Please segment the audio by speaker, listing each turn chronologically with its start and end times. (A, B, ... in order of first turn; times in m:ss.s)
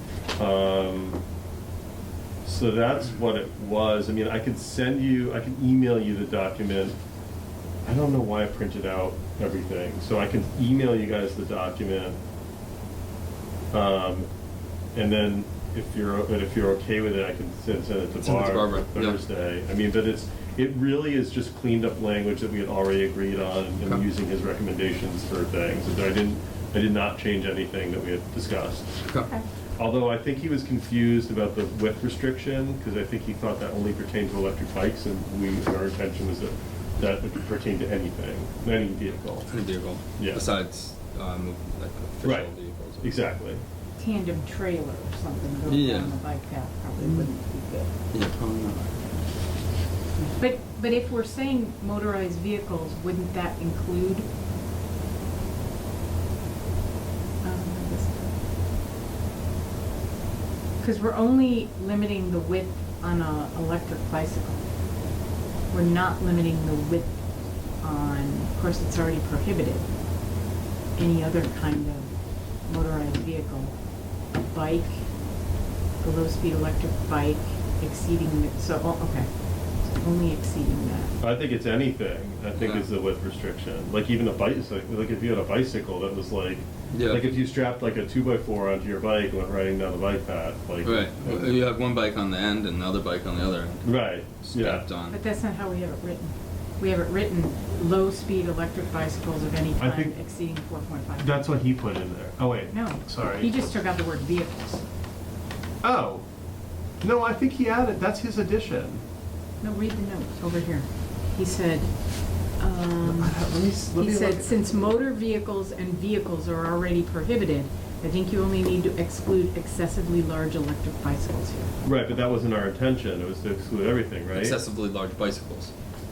0:00.4-0:01.2 A
0:02.4-0:07.0 A
0:07.8-0:12.2 A
0:13.7-0:14.3 A
0:14.9-0:29.0 A
0:18.2-0:19.2 B
0:29.8-0:39.5 A
0:39.5-0:43.1 B
0:40.2-0:40.4 A
0:42.2-0:43.6 A
0:44.0-0:47.9 C
0:45.6-0:46.1 B
0:47.0-0:47.3 B
0:48.1-0:49.0 B
0:50.2-0:54.3 C
0:57.4-0:58.3 C
1:00.8-1:04.6 C
1:05.7-1:07.2 C
1:07.8-1:09.9 C
1:11.0-1:12.1 C
1:12.6-1:13.7 C
1:14.4-1:15.0 C
1:16.0-1:21.1 C
1:21.2-1:31.6 A
1:22.5-1:22.9 B
1:26.9-1:27.3 B
1:30.8-1:35.2 B
1:33.8-1:34.8 A
1:35.1-1:41.4 C
1:39.8-1:40.1 A
1:41.2-1:43.7 A
1:42.7-1:44.8 C
1:45.8-1:46.3 A
1:47.0-1:49.0 A
1:49.6-1:51.9 C
1:52.6-1:53.4 C
1:53.0-1:55.0 A
1:53.9-2:01.7 C
2:01.8-2:04.6 A
2:04.3-2:05.7 B